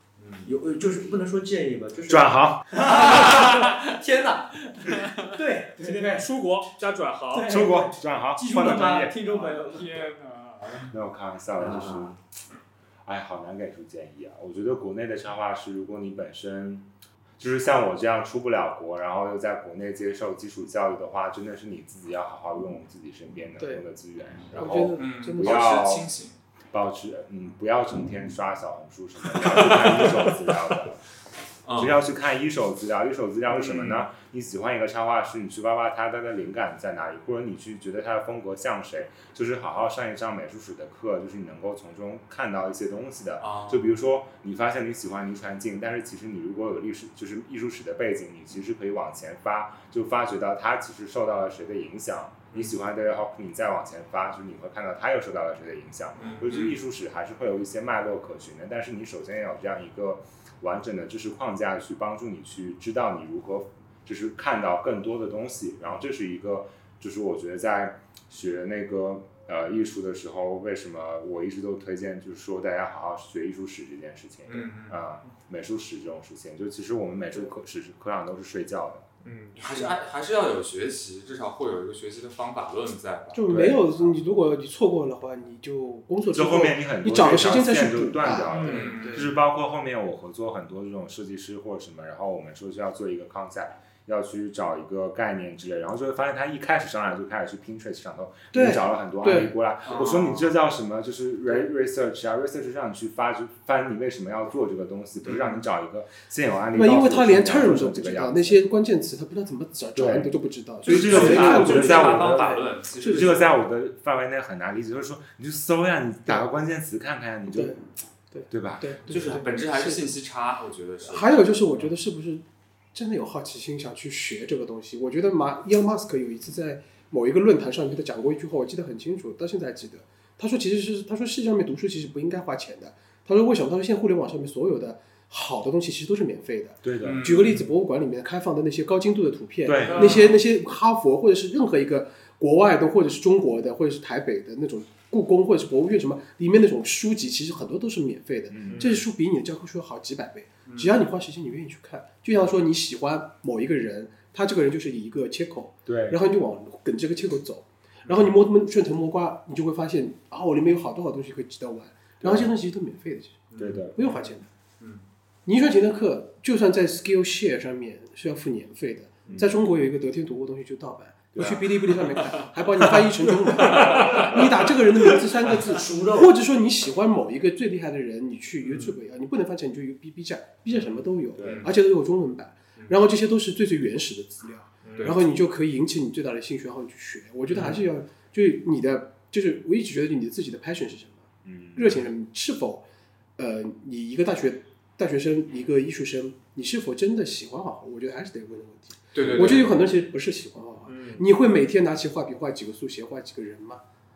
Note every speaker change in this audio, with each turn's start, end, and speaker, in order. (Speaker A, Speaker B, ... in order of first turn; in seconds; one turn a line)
Speaker A: 0.2-0.6
Speaker B: 0.5-6.3
Speaker C: 2.1-2.7
Speaker A: 2.9-3.7
Speaker D: 5.8-7.6
Speaker B: 7.3-10.1
Speaker C: 7.5-9.2
Speaker A: 9.8-10.9
Speaker C: 10.9-12.2
Speaker B: 11.6-12.2
Speaker C: 13.1-26.1
Speaker E: 24.5-25.8
Speaker A: 24.9-26.4
Speaker C: 26.7-31.0
Speaker A: 29.4-30.4
Speaker A: 31.6-32.0
Speaker C: 31.8-79.1
Speaker A: 33.5-34.0
Speaker A: 43.4-44.0
Speaker A: 56.2-56.8
Speaker A: 74.5-75.0
Speaker D: 79.2-79.9
Speaker A: 79.5-83.4
Speaker E: 83.3-89.2
Speaker C: 83.5-84.2
Speaker C: 86.3-108.6
Speaker A: 88.6-89.3
Speaker E: 98.5-99.5
Speaker A: 99.9-100.6
Speaker A: 105.3-105.6
Speaker E: 106.7-113.3
Speaker C: 110.0-117.8
Speaker A: 110.8-113.6
Speaker E: 117.5-117.8
Speaker E: 118.3-120.1
Speaker C: 118.5-119.4
Speaker A: 119.1-121.9
Speaker E: 121.0-164.5
Speaker C: 136.8-137.6
Speaker A: 137.0-137.7
Speaker C: 139.6-140.2
Speaker D: 139.9-140.3
Speaker C: 148.5-148.9
Speaker A: 150.7-150.9
Speaker C: 155.9-156.2
Speaker C: 162.2-162.5
Speaker A: 163.5-164.2
Speaker C: 163.6-164.0
Speaker A: 164.8-165.1
Speaker E: 165.5-192.8
Speaker C: 169.3-169.6
Speaker C: 171.3-171.7
Speaker A: 173.0-174.4
Speaker B: 175.4-176.3
Speaker C: 181.4-181.7
Speaker A: 181.4-181.8
Speaker D: 184.8-185.2
Speaker A: 187.5-187.8
Speaker C: 191.4-191.9
Speaker E: 193.4-203.8
Speaker A: 199.1-199.8
Speaker D: 200.9-201.3